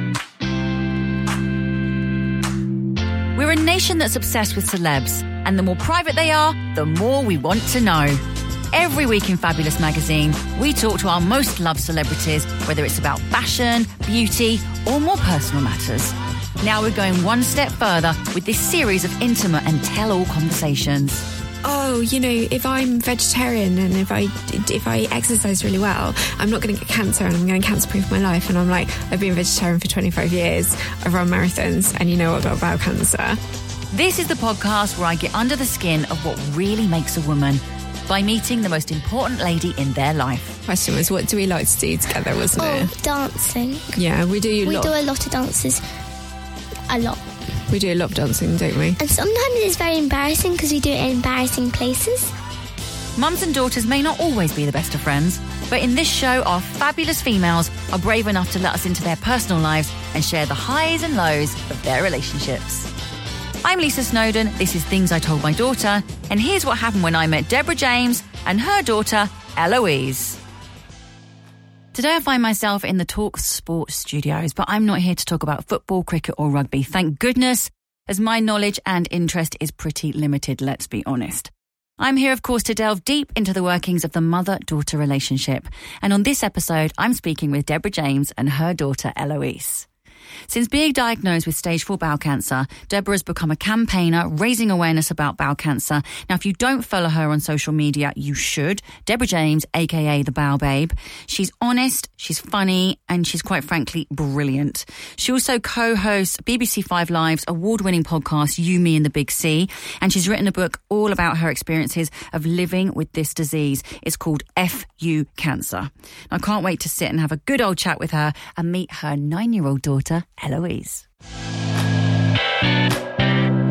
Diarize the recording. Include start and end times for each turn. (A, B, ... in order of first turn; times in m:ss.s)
0:03.4-0:21.2 A
0:21.6-0:33.4 B
0:33.9-0:40.6 A
0:40.7-0:42.9 B
0:42.6-0:44.0 C
0:44.0-0:44.9 B
0:44.6-0:45.8 C
0:46.9-0:47.2 C
0:47.7-0:49.0 B
0:49.0-0:52.3 C
0:53.2-1:02.9 A
1:03.6-1:10.4 A
1:11.9-1:29.9 A
1:30.5-2:01.0 A